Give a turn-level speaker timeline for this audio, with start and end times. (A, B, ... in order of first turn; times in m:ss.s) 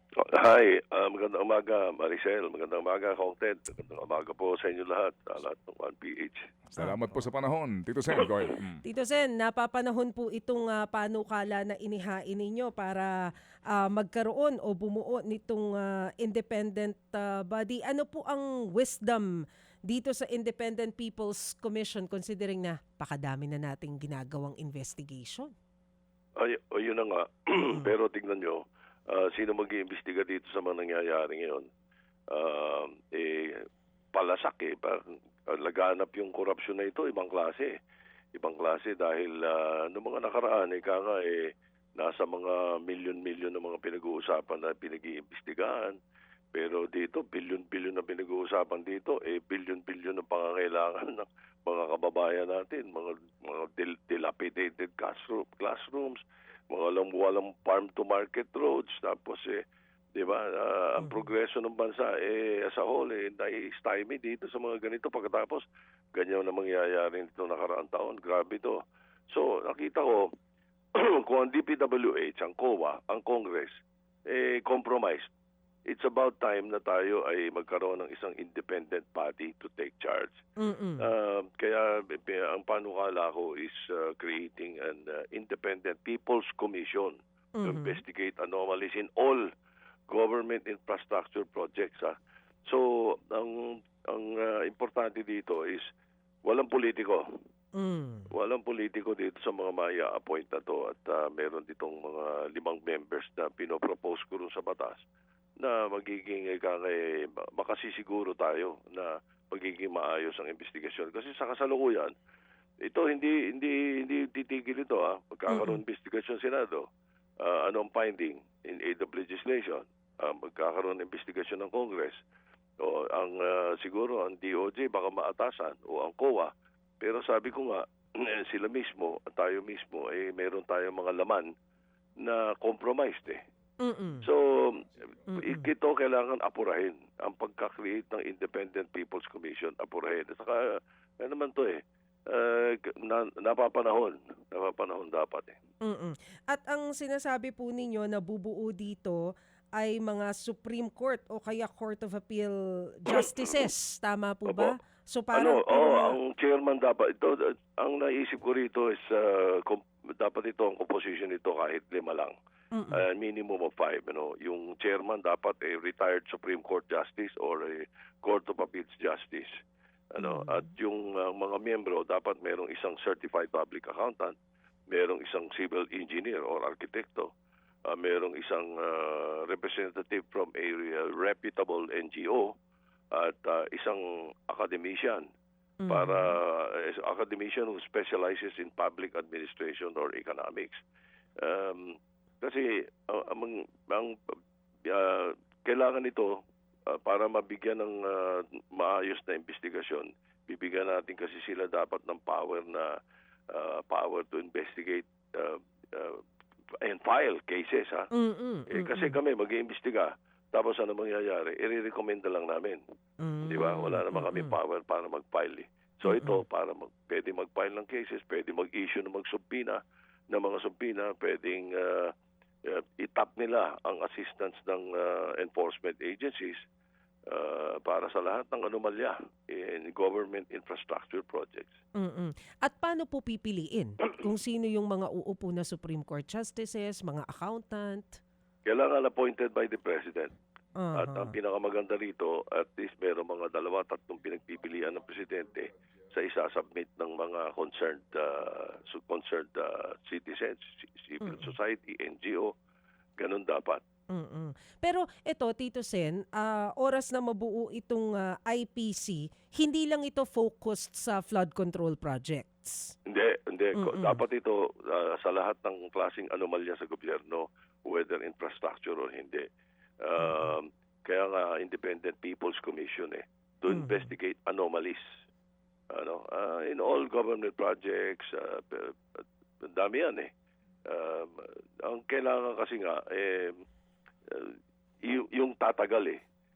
0:00.2-0:06.5 A
0:06.7-0:08.8 B
0:08.8-0:13.1 C
0:13.7-0:19.3 C
0:19.9-0:25.5 C
0:26.4-0:31.7 A
0:32.3-0:37.7 A
0:38.3-0:46.0 A
0:46.6-0:56.2 A
0:56.7-0:59.6 A
1:00.2-1:10.3 A
1:01.0-1:01.3 C
1:11.0-1:15.3 A
1:15.9-1:20.4 A
1:20.6-1:21.1 C
1:21.0-1:29.5 A
1:27.6-1:28.0 C
1:30.1-1:32.1 A
1:32.7-1:35.8 A
1:36.4-1:37.2 A
1:37.8-1:38.3 C
1:38.3-1:45.0 A
1:45.6-1:52.1 A
1:52.8-1:56.9 A
1:55.5-1:55.8 C
1:57.4-2:02.2 A
2:02.8-2:11.5 A
2:12.2-2:13.4 A
2:13.8-2:14.3 C
2:14.2-2:20.6 A
2:15.3-2:15.7 C
2:21.2-2:21.8 A
2:22.3-2:25.6 A
2:25.8-2:29.2 C
2:29.8-2:36.2 C
2:33.1-2:33.7 A
2:34.5-2:34.7 A
2:35.3-2:42.4 A
2:42.7-2:43.0 C
2:42.9-2:49.5 A
2:50.1-2:54.3 A
2:50.2-2:50.6 C
2:54.9-2:57.3 A
2:57.9-3:02.5 A
3:03.1-3:05.3 A
3:05.8-3:06.4 C
3:05.9-3:10.8 A
3:11.4-3:14.2 A
3:14.8-3:23.0 A
3:23.5-3:26.2 A
3:26.8-3:28.1 A
3:28.1-3:29.2 C
3:28.7-3:32.8 A
3:33.2-3:34.6 C
3:33.5-3:39.8 A
3:36.1-3:36.4 C
3:40.3-3:42.1 A
3:42.6-3:46.6 A
3:47.3-3:51.8 A
3:52.0-3:58.2 C
3:58.7-4:00.3 A
4:00.8-4:01.4 C
4:01.0-4:12.5 A
4:11.2-4:11.5 C
4:13.2-4:13.8 A
4:14.1-4:22.9 C
4:23.1-4:29.5 A
4:23.8-4:24.2 C
4:30.0-4:35.1 A
4:30.2-4:30.5 C
4:33.7-4:34.1 C
4:35.9-4:39.0 A
4:39.6-4:40.3 A
4:40.9-4:43.6 A
4:44.3-4:46.2 A